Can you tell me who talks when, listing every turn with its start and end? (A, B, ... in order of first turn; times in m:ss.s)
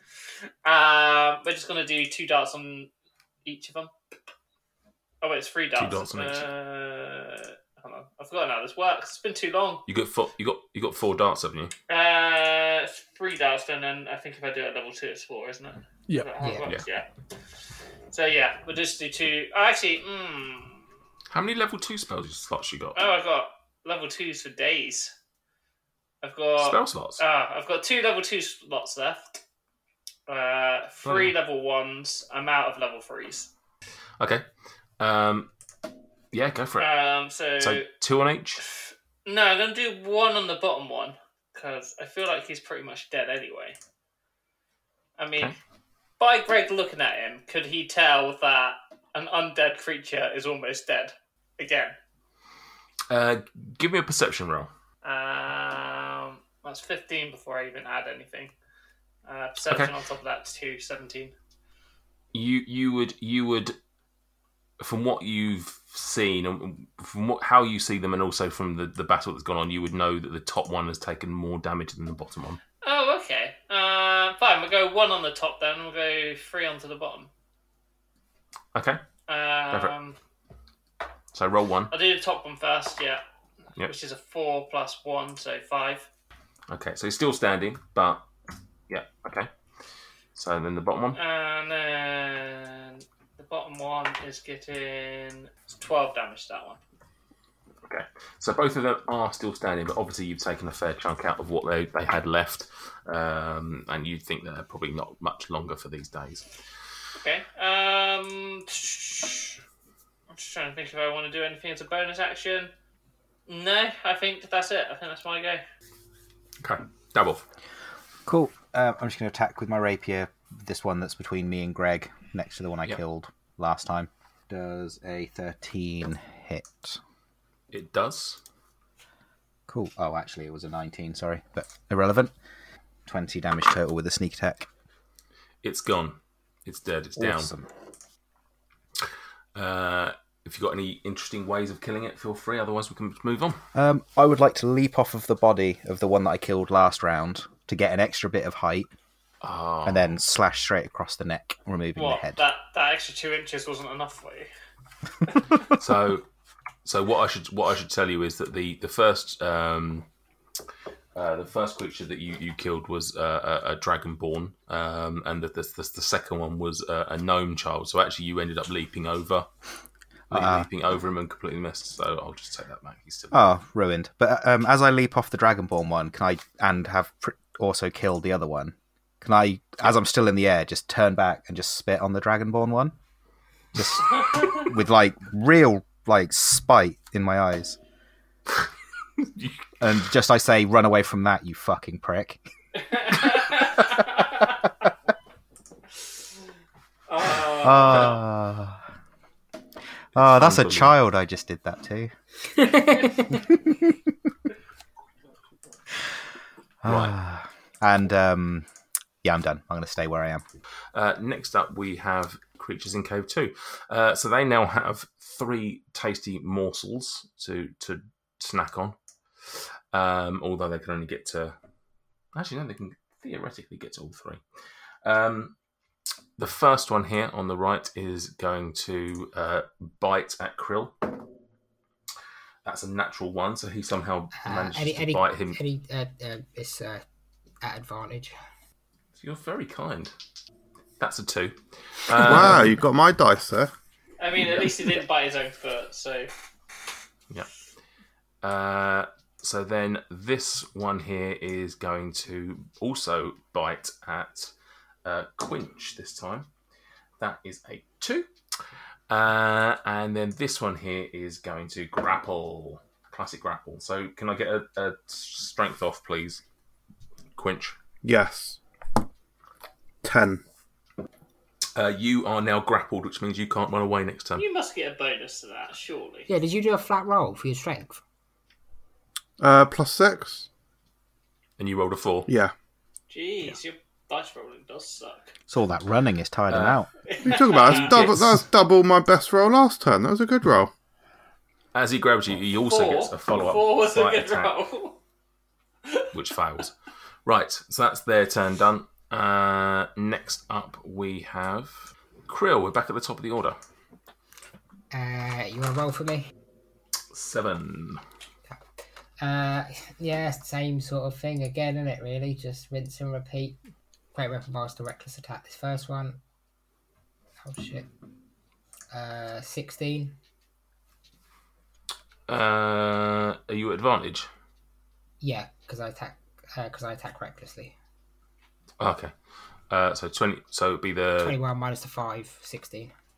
0:00.6-0:02.9 A
0:03.4-0:03.9 A
0:05.2-0:09.8 A
0:05.7-0:06.5 B
0:09.9-0:11.7 B
0:11.9-0:17.1 A
0:16.4-0:16.6 C
0:18.1-0:20.8 A
0:21.3-0:23.0 B
0:23.0-0:25.1 A
0:26.2-0:29.4 A
0:26.6-0:27.2 B
0:30.3-0:33.5 A
0:31.0-0:31.3 B
0:35.0-0:35.5 B
0:36.3-0:36.9 B
0:36.8-0:37.8 A
0:37.6-0:38.6 B
0:38.6-0:43.8 A
0:45.2-0:45.5 A
0:46.2-0:52.0 A
0:53.1-0:54.7 B
0:55.0-0:58.5 A
0:59.3-1:01.3 A
0:59.7-0:59.9 B
1:02.3-1:03.8 B
1:04.8-1:12.6 B
1:12.8-1:17.3 A
1:18.7-1:19.0 B
1:19.3-1:20.2 A
1:21.3-1:21.9 B
1:21.9-1:23.2 A
1:23.8-1:26.1 A
1:26.7-1:28.2 B
1:28.9-1:29.5 B
1:30.3-1:31.2 B
1:31.1-1:36.8 A
1:37.9-1:46.5 B
1:47.2-1:49.6 A
1:50.3-1:52.7 A
1:53.5-1:55.6 A
1:56.6-1:57.4 B
1:58.2-2:07.0 D
2:07.7-2:08.4 B
2:09.7-2:12.3 D
2:13.0-2:14.7 D
2:15.6-2:17.5 B
2:17.2-2:17.7 D
2:19.5-2:23.6 B
2:23.7-2:28.9 D
2:29.4-2:30.2 B
2:29.8-2:32.4 D
2:31.9-2:34.5 A
2:35.7-2:36.2 B
2:36.8-2:40.0 B
2:41.1-2:49.5 B
2:50.3-2:50.7 D
2:50.3-2:53.3 B
2:53.3-3:02.9 D
3:03.7-3:07.8 D
3:09.2-3:09.5 B
3:09.8-3:12.4 D
3:12.8-3:14.4 A
3:17.1-3:18.2 A
3:17.6-3:18.8 D
3:20.1-3:22.1 D
3:20.2-3:20.9 B
3:26.8-3:28.7 D
3:26.8-3:27.1 B
3:29.2-3:30.4 D
3:30.9-3:39.0 B
3:39.5-3:41.6 B
3:42.3-3:44.4 B
3:45.0-3:45.5 B
3:46.4-3:51.1 B
3:52.6-3:55.6 B
3:54.4-3:57.0 C
3:57.6-3:58.3 C
3:59.1-4:00.1 B
4:01.0-4:02.8 B
4:02.1-4:03.7 E
4:04.2-4:06.3 A
4:08.4-4:14.5 B
4:15.0-4:16.5 B
4:17.2-4:18.3 B
4:19.1-4:26.4 B
4:27.4-4:27.8 B
4:28.0-4:28.6 E
4:30.0-4:30.4 E
4:31.8-4:34.4 B
4:34.4-4:36.3 A
4:36.3-4:38.0 C
4:39.4-4:40.5 E
4:41.6-4:42.3 B
4:42.3-4:42.5 E
4:43.1-4:45.3 A
4:45.5-4:46.9 D
4:46.5-4:46.8 B
4:47.1-4:48.0 A
4:47.2-4:50.7 E
4:47.6-4:48.4 B
4:51.7-4:54.5 B
4:52.7-4:55.0 A
4:56.1-4:56.7 B
4:57.2-5:03.6 B
5:04.9-5:06.3 C
5:07.1-5:08.0 B
5:09.2-5:13.6 C
5:14.1-5:16.2 C
5:17.4-5:17.9 C
5:18.9-5:20.2 C
5:22.3-5:24.3 B
5:25.2-5:27.7 C
5:28.8-5:29.1 B
5:29.7-5:31.4 B
5:31.2-5:32.9 C